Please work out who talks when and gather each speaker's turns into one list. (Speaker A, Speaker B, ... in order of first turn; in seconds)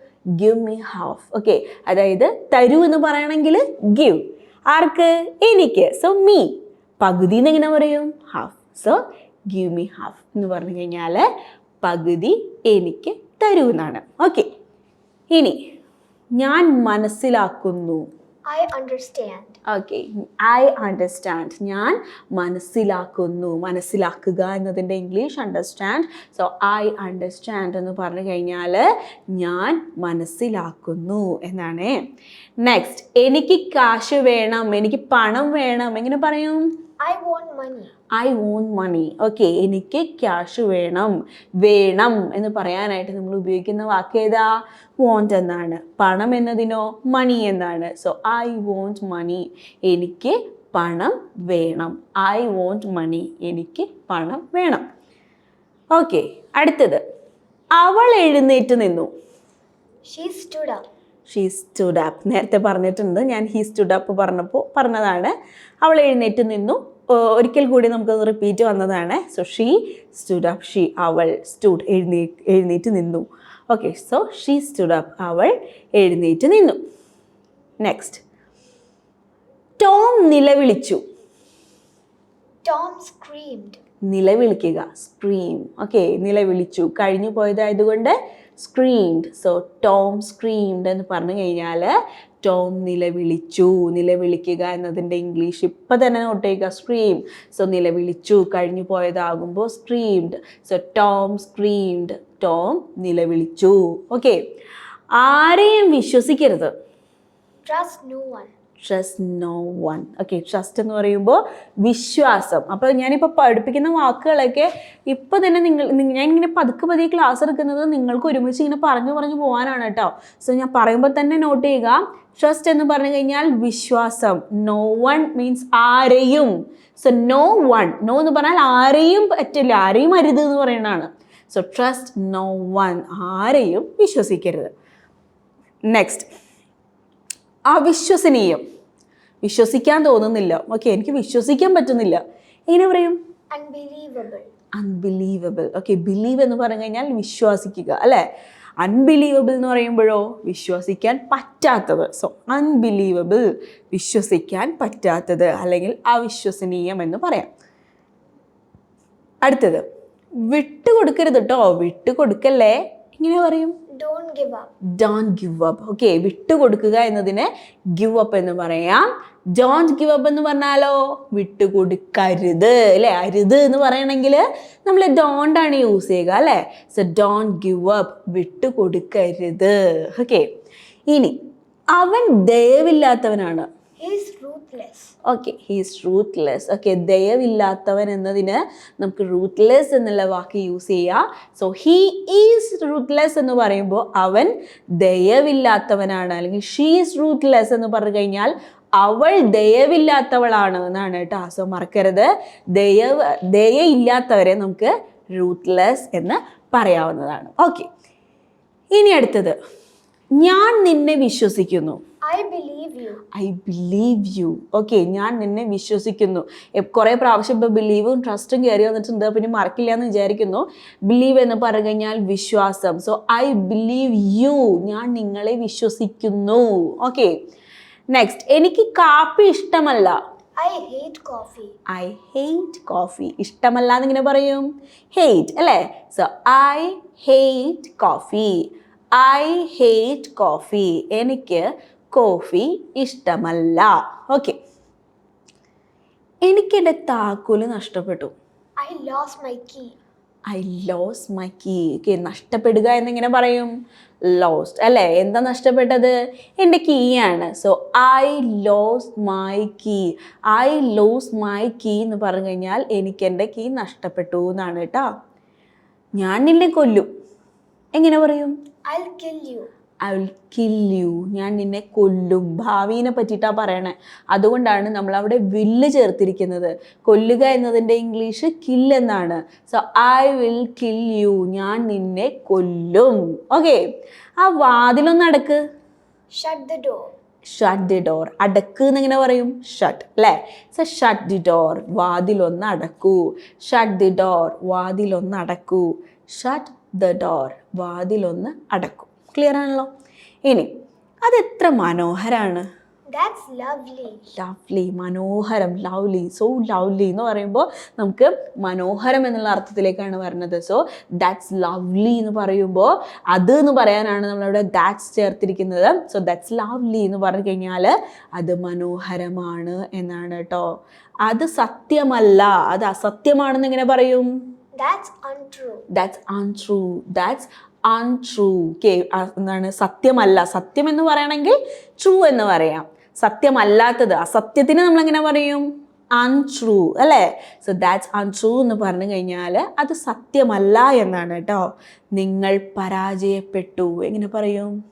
Speaker A: 0.4-11.2, 11.8-14.5, 15.3-15.6, 16.4-18.1, 19.7-32.0, 32.6-36.7, 38.1-54.8, 55.9-57.0, 57.8-59.1, 61.3-76.8, 77.8-78.2, 79.8-81.0, 84.0-104.4, 105.2-106.7, 108.8-134.7, 135.9-136.3, 137.7-138.6, 139.4-143.2, 144.7-148.2, 148.8-157.5, 159.4-159.9, 160.4-163.8, 165.0-180.5, 181.1-181.4, 181.9-183.7, 185.2-207.9, 208.9-209.6, 210.4-212.0, 213.3-227.3, 228.1-230.2, 231.9-244.6, 246.4-248.3, 250.5-253.7, 254.3-265.1, 266.2-267.1, 267.9-268.5, 270.0-283.8, 284.4-285.6, 287.4-299.9, 301.2-302.6, 304.3-320.7, 321.2-324.3, 325.9-335.6, 336.2-344.7
Speaker B: 18.4-19.6, 37.0-37.9, 60.0-60.9, 82.6-83.8, 107.6-108.5, 143.5-144.5, 163.9-164.7, 184.0-185.1, 212.2-213.2, 230.6-231.8, 248.8-250.0, 268.9-269.7, 286.3-287.1, 303.1-304.3, 324.8-325.9